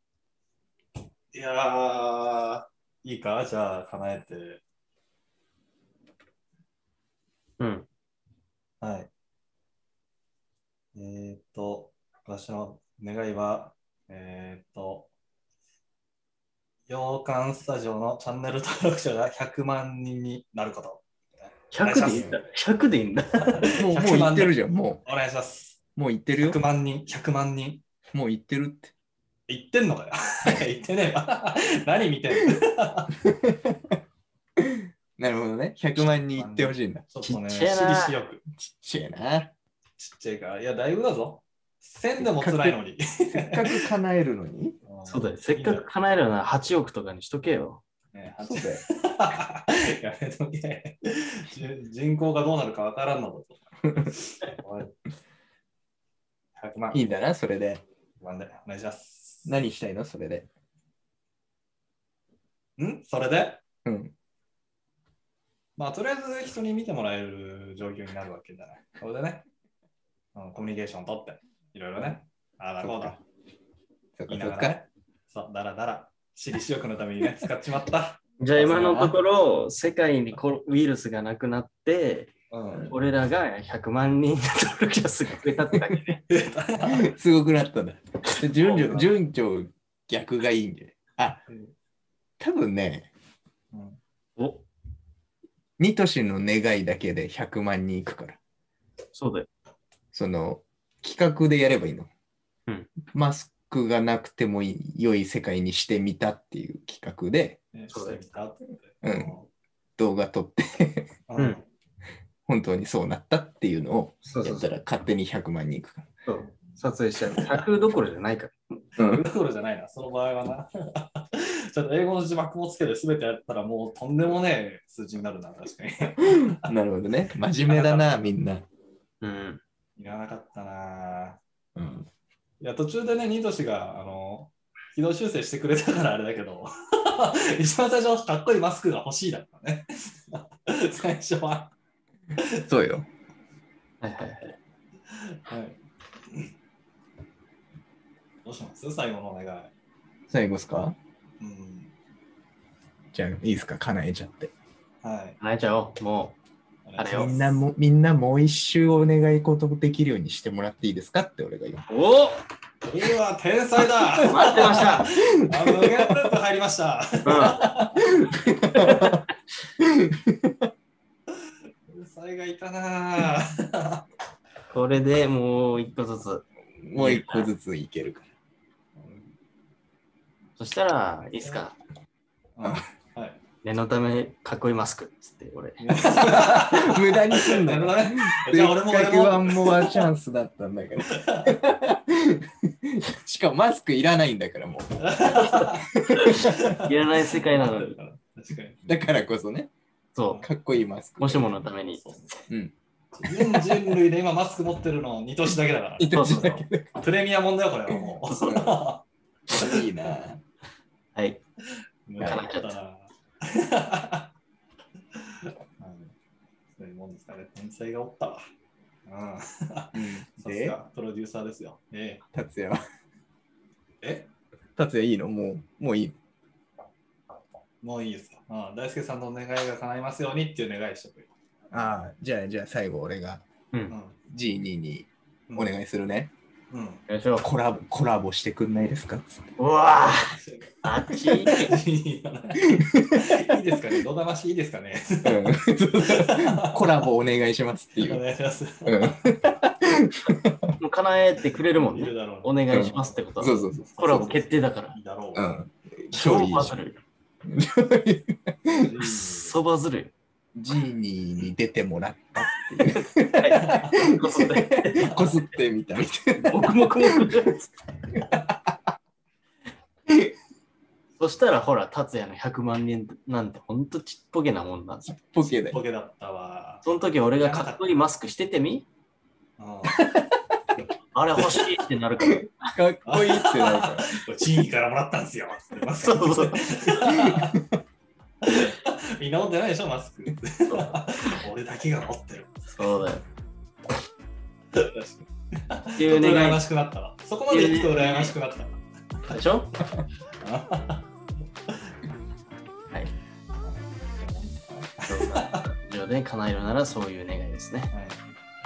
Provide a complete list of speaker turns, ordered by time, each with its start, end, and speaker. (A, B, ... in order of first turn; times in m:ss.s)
0:01.3-0:04.6 A
0:07.6-0:07.8 B
0:08.8-0:09.1 A
0:10.9-0:15.1 A
0:16.9-0:21.0 A
0:21.7-0:23.7 B
0:21.8-0:22.4 A
0:22.0-0:22.4 C
0:23.4-0:25.8 A
0:23.8-0:25.0 C
0:26.0-0:26.6 C
0:26.3-0:27.8 A
0:28.1-0:28.9 C
0:29.5-0:33.1 A
0:33.2-0:34.0 C
0:34.6-0:37.4 C
0:36.0-0:38.4 A
0:37.4-0:38.2 B
0:38.6-0:39.5 C
0:40.0-0:43.6 A
0:42.2-0:42.8 C
0:43.3-0:44.8 C
0:44.8-0:45.9 A
0:45.0-0:47.8 B
0:48.1-0:55.0 A
0:48.4-0:48.8 C
0:56.6-0:57.1 A
0:56.9-0:57.8 C
0:58.2-0:59.6 A
0:59.4-1:00.5 C
1:02.8-1:03.6 A
1:03.8-1:04.1 C
1:05.8-1:09.4 A
1:10.3-1:13.2 A
1:12.8-1:13.2 C
1:14.2-1:14.8 C
1:14.3-1:19.2 A
1:18.4-1:22.3 B
1:22.5-1:22.9 A
1:22.8-1:26.2 B
1:26.3-1:27.1 A
1:26.8-1:31.4 C
1:28.6-1:29.1 A
1:31.5-1:31.7 A
1:32.4-1:33.1 C
1:33.7-1:34.0 A
1:34.4-1:34.6 B
1:35.8-1:38.4 C
1:39.1-1:39.5 B
1:40.1-1:42.1 C
1:43.1-1:47.6 C
1:47.7-1:49.5 A
1:47.9-1:48.4 B
1:49.0-1:49.3 C
1:50.0-1:51.1 C
1:51.3-1:51.7 A
1:52.4-1:56.1 C
1:54.2-1:54.7 B
1:56.2-1:58.8 B
1:56.4-1:56.8 A
1:57.2-1:57.6 C
1:59.0-1:59.3 C
1:59.0-2:06.6 A
2:06.2-2:08.7 C
2:07.6-2:08.2 A
2:09.2-2:09.6 B
2:10.0-2:11.4 A
2:11.8-2:12.1 C
2:12.6-2:21.7 A
2:22.7-2:23.1 C
2:24.0-2:24.6 B
2:25.4-2:25.8 A
2:28.4-2:29.7 A
2:30.3-2:31.0 C
2:31.4-2:31.9 A
2:33.1-2:34.5 C
2:35.0-2:35.4 A
2:35.4-2:36.4 B
2:36.8-2:37.6 A
2:37.0-2:37.3 B
2:37.1-2:41.8 C
2:41.9-2:42.4 B
2:42.8-2:48.0 A
2:44.2-2:46.1 C
2:44.3-2:45.1 B
2:47.2-2:47.6 B
2:47.3-2:49.2 C
2:48.7-2:49.2 B
2:49.8-2:50.7 C
2:51.9-2:54.0 A
2:54.7-2:57.5 B
2:56.8-2:58.3 C
2:59.0-2:59.3 A
3:00.6-3:01.8 B
3:02.6-3:03.4 A
3:03.6-3:05.8 B
3:05.8-3:10.1 A
3:06.2-3:16.6 C
3:11.0-3:11.5 A
3:15.0-3:15.8 A
3:16.2-3:18.0 B
3:16.4-3:18.9 A
3:18.8-3:19.7 C
3:20.1-3:20.4 B
3:20.4-3:21.5 C
3:21.2-3:22.0 B
3:21.9-3:22.5 A
3:23.2-3:29.8 A
3:23.3-3:23.8 C
3:26.0-3:26.9 C
3:26.1-3:26.6 B
3:27.9-3:28.7 C
3:28.3-3:28.8 B
3:29.5-3:30.4 C
3:31.1-3:31.4 B
3:32.1-3:34.3 A
3:32.2-3:32.7 B
3:35.8-3:36.1 A
3:36.8-3:38.4 A
3:39.1-3:42.2 A
3:39.9-3:40.8 C
3:42.3-3:42.8 C
3:44.0-3:44.3 A
3:44.8-3:46.1 C
3:47.8-3:52.0 A
3:51.7-3:53.4 C
3:53.9-3:54.2 A
3:54.3-3:56.3 C
3:55.5-3:55.7 A
3:56.7-3:57.0 A
3:57.1-3:57.5 B
3:57.4-3:59.4 C
3:59.6-4:01.7 B
4:00.0-4:00.7 A
4:01.6-4:06.9 A
4:02.7-4:03.0 C
4:05.2-4:08.2 C
4:08.0-4:09.4 A
4:08.8-4:10.6 C
4:10.8-4:14.9 B
4:11.7-4:13.2 A
4:12.7-4:14.4 C
4:14.1-4:15.5 A
4:15.3-4:16.8 C
4:16.1-4:17.0 B
4:17.4-4:19.0 C
4:18.7-4:19.5 A
4:19.0-4:20.1 B
4:20.6-4:27.4 C
4:23.3-4:25.3 B
4:25.1-4:25.3 A
4:26.4-4:27.7 B
4:30.1-4:30.3 C
4:31.2-4:35.2 B
4:35.1-4:35.8 C
4:35.4-4:36.8 A
4:36.8-4:38.8 B
4:37.4-4:37.8 A
4:39.6-4:40.1 A
4:39.9-4:40.4 C
4:41.1-4:42.6 B
4:42.3-4:44.2 C
4:43.0-4:47.6 A
4:46.0-4:46.7 B
4:47.3-4:47.6 C
4:48.4-4:52.7 A
4:50.7-4:51.3 B
4:52.7-4:53.2 B
4:54.7-4:59.4 A
4:56.0-4:56.6 B
4:57.5-4:58.3 B
4:59.3-4:59.7 B
5:00.4-5:01.1 A
5:03.6-5:05.6 A
5:05.1-5:07.9 B
5:07.9-5:08.2 A